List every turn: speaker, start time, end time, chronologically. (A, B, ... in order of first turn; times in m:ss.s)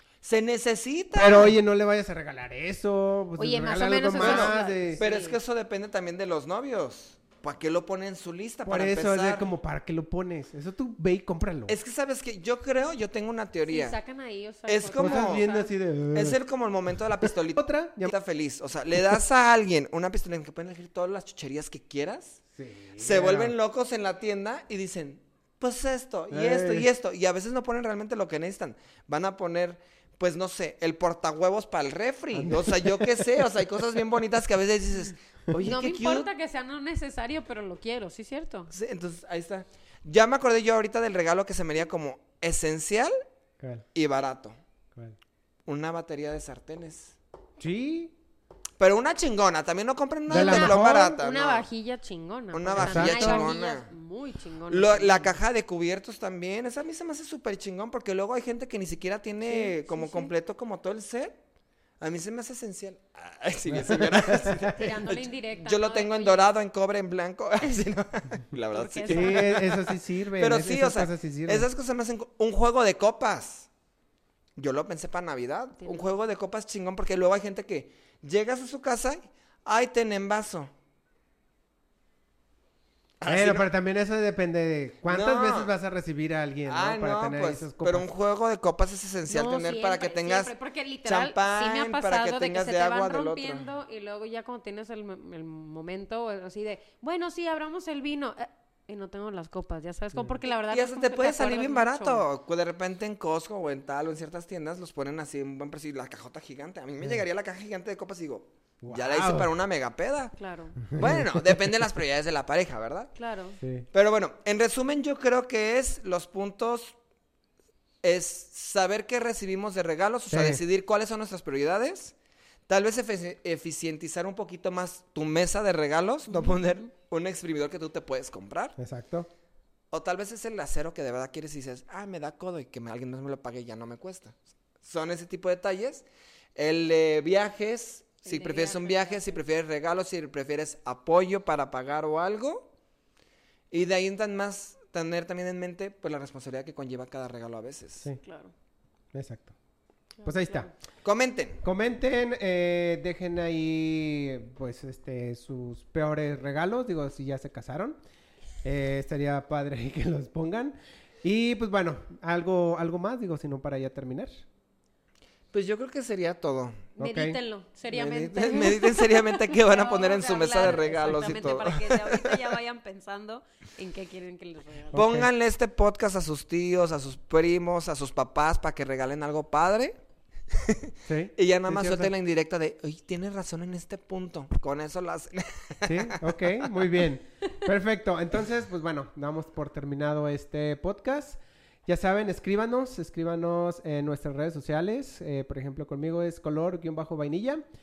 0:00.2-0:01.5 A
0:01.1-0:05.0 B
0:03.4-0:05.4 C
0:04.2-0:09.5 A
0:08.6-0:11.7 B
0:11.7-0:14.0 A
0:13.7-0:15.7 C
0:14.6-0:15.5 A
0:15.0-0:16.4 B
0:16.1-0:22.4 A
0:17.2-0:18.1 B
0:22.5-0:23.5 B
0:23.0-0:36.3 A
0:26.3-0:26.9 B
0:32.3-0:33.3 B
0:35.6-0:38.7 C
0:38.7-0:43.2 A
0:43.6-0:43.8 B
0:43.9-0:44.5 A
0:45.6-0:47.2 A
0:47.6-0:48.1 B
0:48.8-0:51.7 A
0:50.3-0:51.2 B
0:50.3-0:55.4 C
0:52.5-0:53.9 A
0:52.7-0:53.5 B
0:54.7-1:01.4 A
0:59.4-1:00.3 C
1:02.0-1:09.7 A
1:03.7-1:04.8 B
1:04.6-1:06.5 C
1:08.7-1:09.7 C
1:09.1-1:11.7 B
1:10.4-1:13.7 A
1:14.6-1:20.7 A
1:15.8-1:16.0 C
1:23.2-1:23.7 A
1:23.2-1:28.1 B
1:25.1-1:25.7 A
1:26.7-1:30.5 A
1:29.3-1:42.2 C
1:31.0-1:33.7 A
1:40.5-1:50.3 A
1:48.8-1:49.5 B
1:50.4-1:50.8 C
1:50.9-1:51.7 B
1:50.9-1:53.1 A
1:53.2-1:53.6 C
1:53.6-1:53.9 B
1:53.9-1:56.9 A
1:58.0-2:02.1 A
2:00.3-2:00.6 B
2:02.7-2:08.8 A
2:06.3-2:06.7 C
2:08.8-2:09.3 B
2:09.9-2:16.0 A
2:16.6-2:22.7 A
2:18.2-2:19.4 C
2:23.7-2:28.1 A
2:28.2-2:28.5 C
2:29.1-2:29.5 B
2:30.2-2:30.7 C
2:30.2-2:30.7 B
2:31.0-2:31.6 A
2:31.6-2:38.0 B
2:38.6-2:44.4 B
2:45.5-2:46.9 A
2:47.0-2:47.4 B
2:47.0-2:55.0 C
2:47.9-2:52.5 A
2:54.9-2:55.3 B
2:54.9-3:00.0 A
3:00.5-3:06.6 A
3:01.0-3:02.1 B
3:05.8-3:17.6 B